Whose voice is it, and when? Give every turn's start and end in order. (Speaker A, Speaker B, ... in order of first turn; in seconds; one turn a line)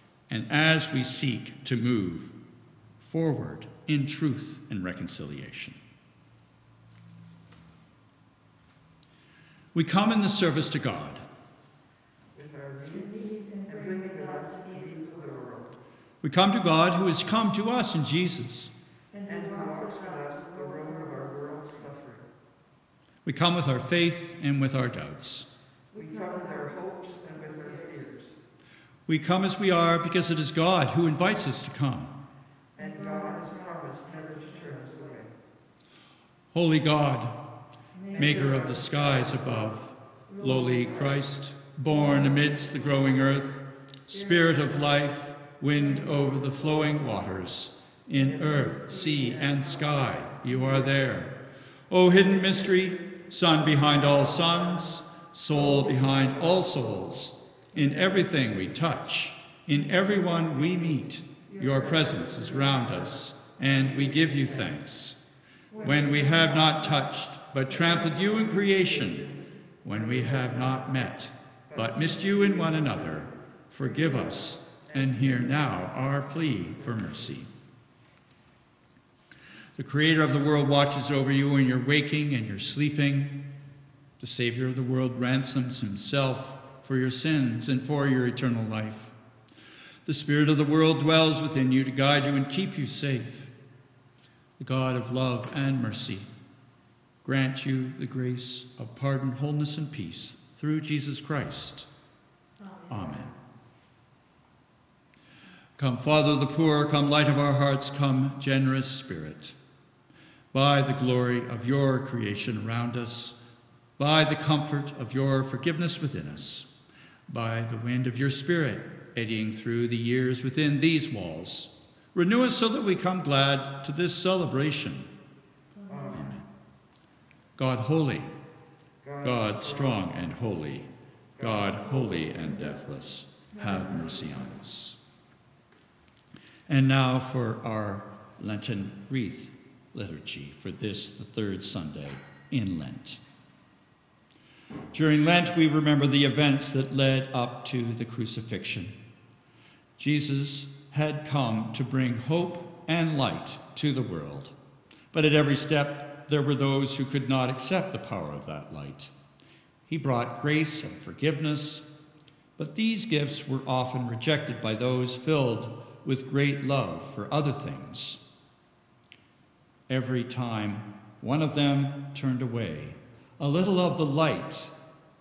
Speaker A: 0.3-2.4
Speaker A: 3.0-5.8
Speaker A: 9.7-11.2
Speaker B: 12.3-15.7
Speaker A: 16.2-18.7
Speaker B: 19.2-22.3
Speaker A: 23.2-25.5
Speaker B: 25.9-28.4
Speaker A: 29.1-32.2
Speaker B: 32.8-35.3
Speaker A: 36.5-37.4
Speaker A: 38.1-51.4
Speaker A: 51.9-65.2
Speaker A: 65.8-77.5
Speaker A: 79.8-83.5
Speaker A: 84.2-89.1
Speaker A: 90.0-93.5
Speaker A: 94.6-96.3
Speaker A: 97.2-101.9
Speaker A: 102.9-103.3
Speaker A: 105.8-109.6
Speaker A: 110.5-113.4
Speaker A: 114.0-116.7
Speaker A: 117.3-125.1
Speaker A: 126.1-126.5
Speaker A: 127.6-128.3
Speaker B: 129.0-129.3
Speaker A: 129.2-135.0
Speaker A: 136.7-143.2
Speaker A: 144.9-149.0
Speaker A: 150.0-154.6
Speaker A: 155.1-159.1
Speaker A: 159.9-161.9
Speaker A: 162.6-168.2
Speaker A: 169.9-174.7